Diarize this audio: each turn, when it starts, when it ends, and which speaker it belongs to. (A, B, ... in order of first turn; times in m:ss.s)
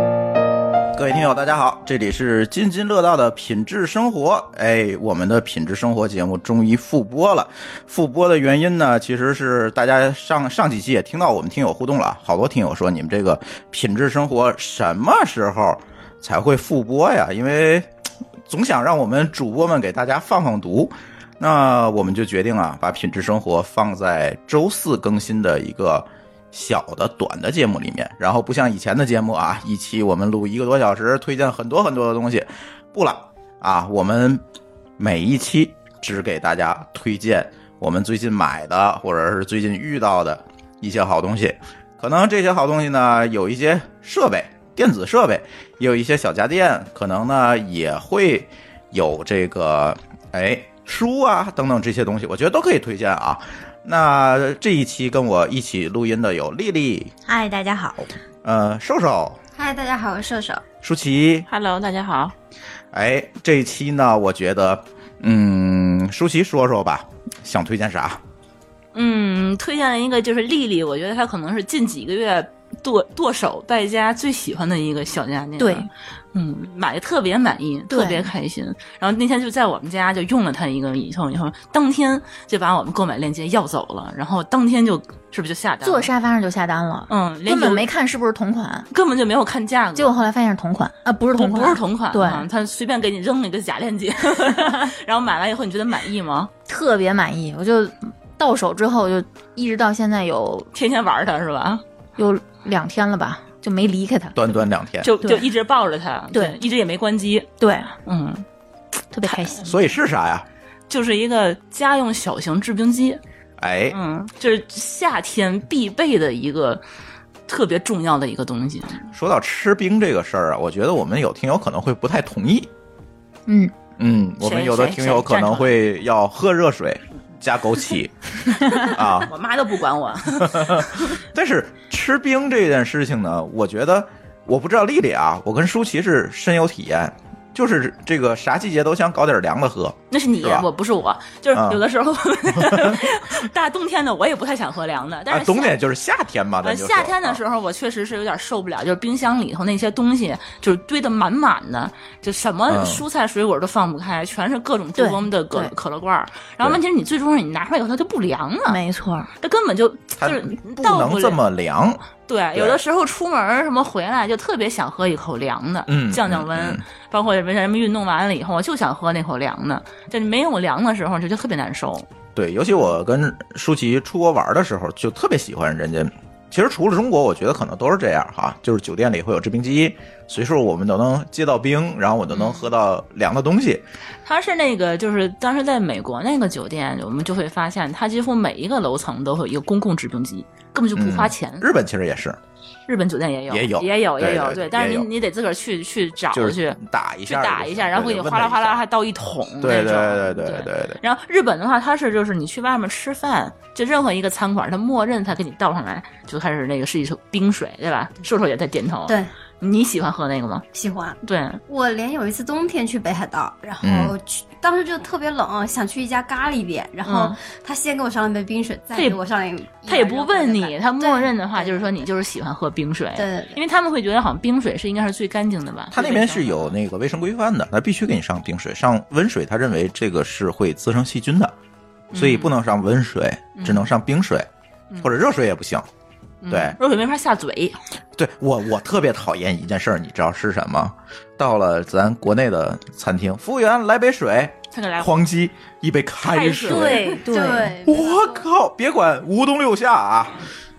0:00.9-0:17.9 A
0:18.5-0:34.4 A
0:35.0-0:57.1 A
0:57.2-0:58.1 B
0:58.4-0:59.4 A
0:59.6-1:00.6 C
1:00.8-1:01.5 A
1:01.5-1:02.3 D
1:02.9-1:08.2 A
1:08.9-1:26.1 D
1:15.6-1:15.9 B
1:17.9-1:18.3 B
1:25.8-1:28.9 B
1:27.1-1:27.9 D
1:28.9-1:30.2 D
1:30.0-1:32.5 B
1:31.4-1:36.5 D
1:36.7-1:40.7 B
1:40.7-1:41.8 D
1:42.2-1:44.4 B
1:44.3-1:45.1 A
1:45.0-1:47.5 D
1:45.2-1:45.5 B
1:47.6-1:47.9 B
1:48.0-1:48.4 D
1:49.1-1:49.7 B
1:49.2-1:49.6 D
1:49.6-1:50.4 A
1:50.9-1:53.2 D
1:53.6-1:54.0 A
1:53.9-1:56.8 D
1:57.5-1:59.1 D
1:59.1-2:02.7 A
2:03.5-2:03.7 B
2:04.0-2:08.1 A
2:04.4-2:05.8 D
2:08.7-2:11.2 D
2:08.8-2:09.3 A
2:10.3-2:20.7 A
2:20.1-2:25.8 D
2:21.5-2:21.8 A
2:22.6-2:23.0 A
2:25.3-2:27.4 A
2:26.6-2:38.8 D
2:32.7-2:33.0 A
2:35.0-2:35.7 B
2:38.7-2:39.3 B
2:39.4-2:41.4 D
2:40.2-2:42.8 A
2:42.3-2:52.1 D
2:45.9-2:46.8 A
2:52.4-3:03.8 A
3:02.3-3:02.7 D
3:04.2-3:11.7 D
3:10.9-3:12.4 A
3:12.9-3:30.6 D
3:13.5-3:15.1 A
3:16.3-3:18.8 A
3:19.6-3:21.0 A
3:30.7-3:42.0 C
3:31.2-3:31.6 D
3:33.8-3:34.1 A
3:37.0-3:37.4 D
3:39.9-3:46.7 D
3:43.2-3:43.6 C
3:45.9-3:51.5 A
3:52.1-3:52.5 D
3:52.1-3:54.5 A
3:53.6-3:53.9 D
3:55.0-3:55.8 A
3:56.4-3:57.8 D
3:56.5-3:56.8 A
3:58.2-4:07.2 A
4:04.7-4:05.1 D
4:06.2-4:07.3 D
4:06.7-4:08.4 C
4:06.7-4:07.8 B
4:07.8-4:10.4 A